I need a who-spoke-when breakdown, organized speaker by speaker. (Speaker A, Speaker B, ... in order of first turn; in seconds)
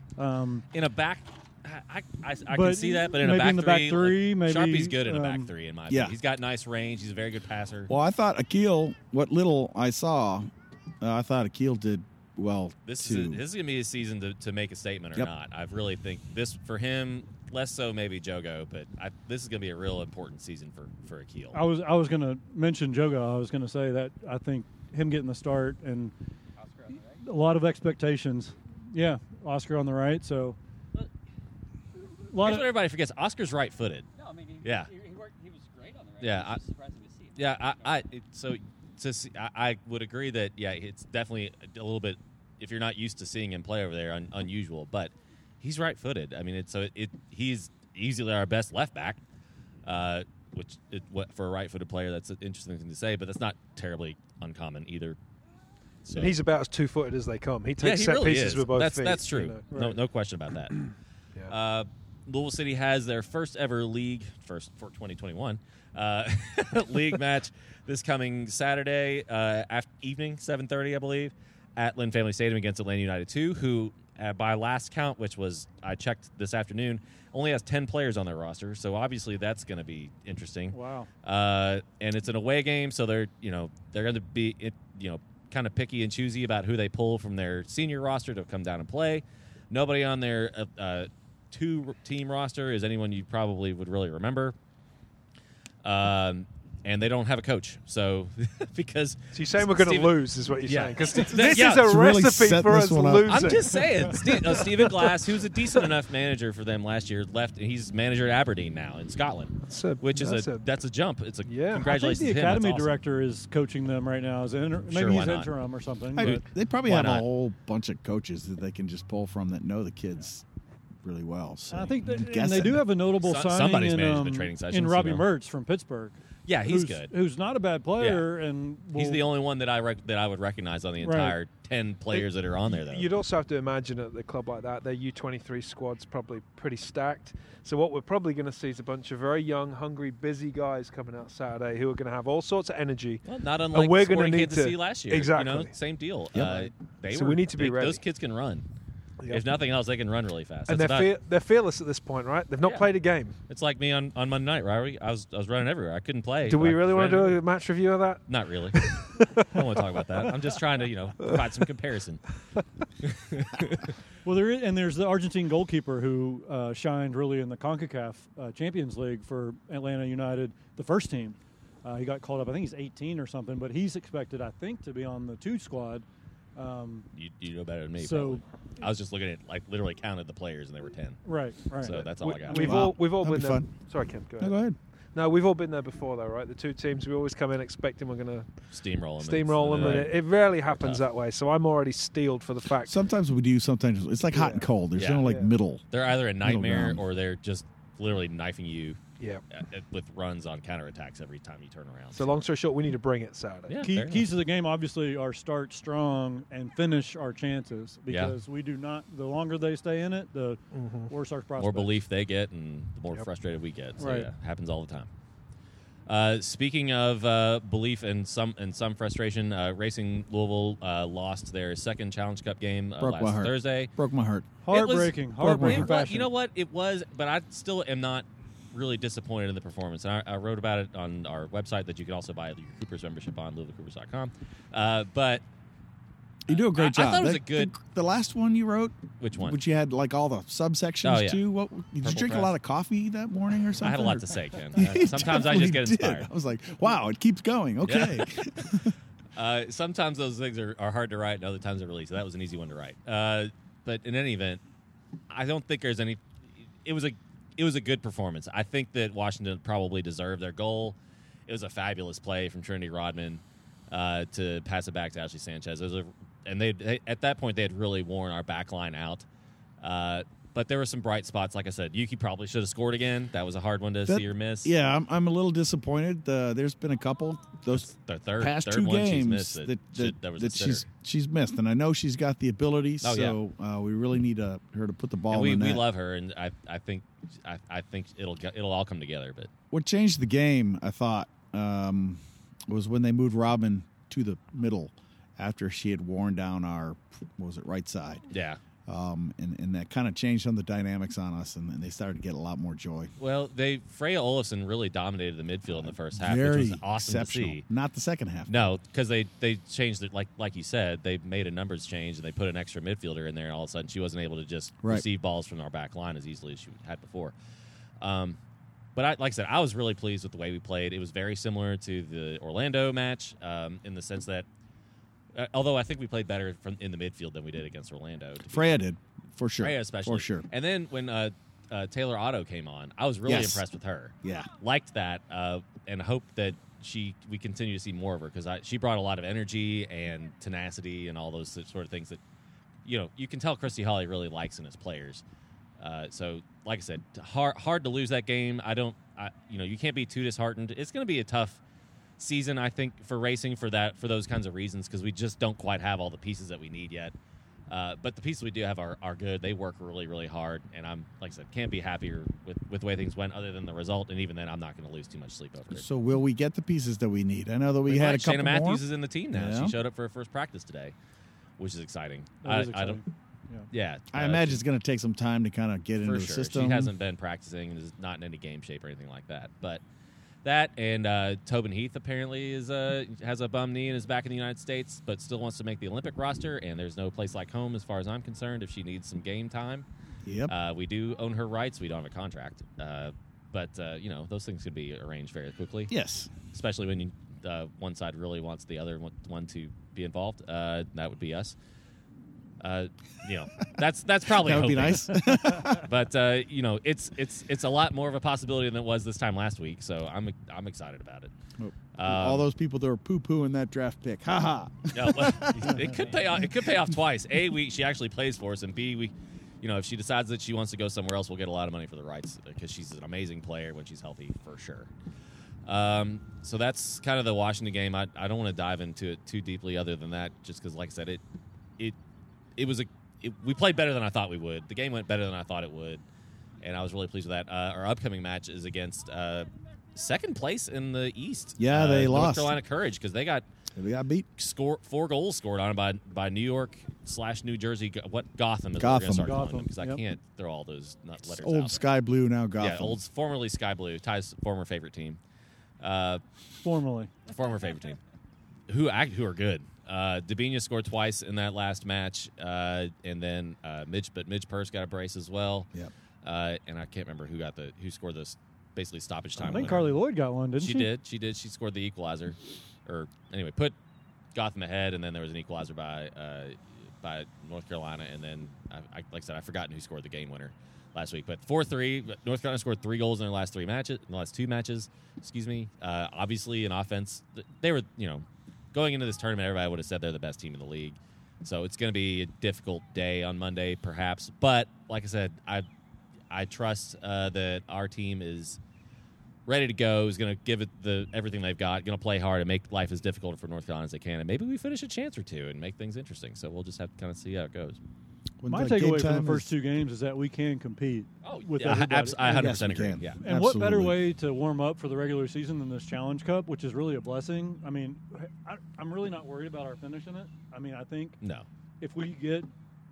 Speaker A: 0.2-0.7, 2.5-5.5, 21.5-26.1, 27.2-30.6, 32.3-32.7, 59.7-60.0, 80.7-81.1, 111.8-116.4, 121.7-129.2, 131.0-131.4, 164.2-176.1, 176.6-177.1, 178.0-178.4, 181.2-182.1, 203.8-212.0, 214.0-214.3, 224.6-226.3, 372.4-373.7, 449.2-450.0, 456.6-457.1, 469.4-470.9, 508.5-512.6, 513.2-521.2, 521.8-522.5
Speaker B: 0.7-7.9, 12.9-21.6, 32.4-34.1, 34.6-34.9, 36.2-36.6, 37.4-49.2, 49.9-55.2, 56.0-56.4, 57.8-60.9, 61.5-94.5, 95.8-101.9, 103.3-113.0, 114.9-115.5, 116.2-117.3, 123.2-125.3, 126.5-127.1, 128.0-128.3, 128.9-133.1, 143.2-148.7, 149.3-151.1, 152.6-152.9, 153.5-157.4, 158.3-162.2, 163.0-163.9, 177.1-181.2, 181.8-182.9, 188.7-191.0, 194.9-195.3, 195.9-199.0, 199.5-202.4, 203.7-204.3, 208.1-208.3, 211.6-215.1, 216.1-223.9, 224.7-235.4, 236.5-237.7, 239.2-239.6, 241.0-241.4, 242.0-242.5, 243.8-246.3, 247.8-254.6, 255.3-256.2, 256.8-261.0, 261.5-269.3, 269.8-274.8, 277.7-280.9, 283.0-283.4, 285.3-289.5, 298.3-298.6, 303.2-307.6, 308.5-317.3, 318.0-318.4, 319.0-324.5, 325.3-328.8, 329.6-342.2, 342.9-345.2, 345.8-351.6, 352.2-357.1, 357.7-365.9, 367.9-370.9, 371.6-373.0, 373.7-374.6, 376.0-379.8, 380.4-389.9, 390.5-395.9, 396.5-401.6, 402.6-411.3, 411.9-412.5, 414.9-424.9, 425.6-431.2, 432.6-436.0, 436.6-443.5, 444.4-451.8, 452.6-455.2, 455.8-456.2, 457.3-458.0, 458.7-465.7, 466.2-469.9, 470.6-473.8, 474.3-495.7, 496.3-498.6, 499.5-507.8, 511.2-513.2, 521.2-521.5
Speaker C: 5.9-6.2, 7.9-10.5, 11.0-13.4, 101.4-103.5, 116.2-120.4, 121.0-122.8, 146.3-146.7, 182.5-183.7, 184.4-184.8, 192.9-195.8, 196.4-197.0, 223.0-224.5, 225.4-225.9, 236.5-248.9, 274.1-285.8, 289.7-298.3, 298.9-303.1, 305.7-308.5, 328.5-330.5, 333.3-333.6, 334.2-334.5, 365.7-369.8, 374.1-376.9, 390.2-390.5, 395.9-396.3, 404.3-405.9, 411.6-416.0, 441.6-442.6, 443.8-444.3, 448.8-449.4, 451.3-453.0, 508.4-509.5, 512.2-514.0
Speaker D: 26.6-27.2, 34.1-38.0
Speaker E: 56.1-59.6, 99.3-105.2, 109.7-110.6, 111.5-111.9, 132.1-145.7, 147.1-148.0, 150.7-153.3, 156.5-158.2, 158.7-160.3, 182.2-184.6, 185.2-188.5, 189.2-193.1, 194.3-194.7, 195.2-195.5, 202.1-203.8, 210.7-211.1